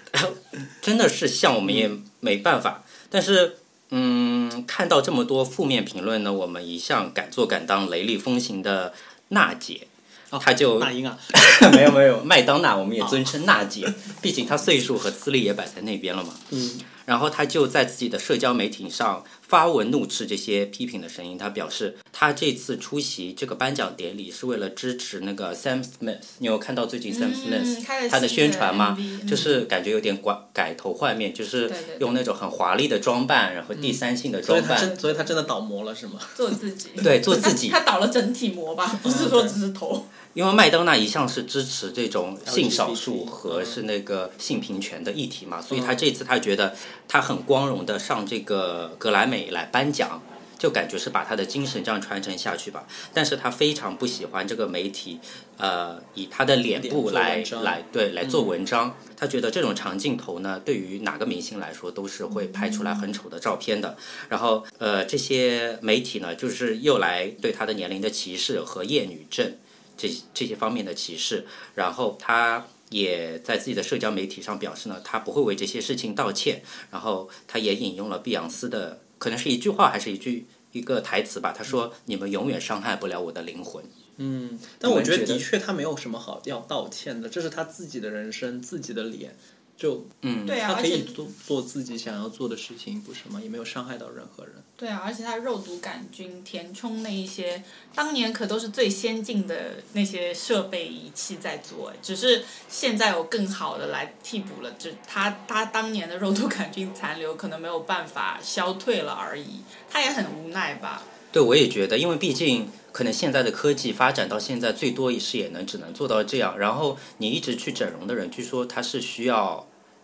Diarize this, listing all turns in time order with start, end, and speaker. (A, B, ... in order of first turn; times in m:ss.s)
0:00.1-0:34.9 A
0:01.7-0:01.9 B
0:10.3-0:11.9 B
0:13.0-0:13.3 B
0:16.5-0:16.8 B
0:27.1-0:29.6 C
0:31.6-0:32.2 C
0:33.7-0:36.4 B
0:34.8-0:35.4 C
0:36.3-0:40.1 C
0:37.0-0:37.8 A
0:39.0-0:39.6 B
0:40.3-1:23.9 A
0:42.4-0:43.8 B
0:45.7-0:46.0 B
0:56.7-0:58.6 B
1:02.3-1:03.1 C
1:24.2-1:34.7 B
1:24.8-1:25.4 A
1:30.2-1:30.6 A
1:30.4-1:31.2 C
1:34.8-1:51.1 C
1:51.3-1:59.7 A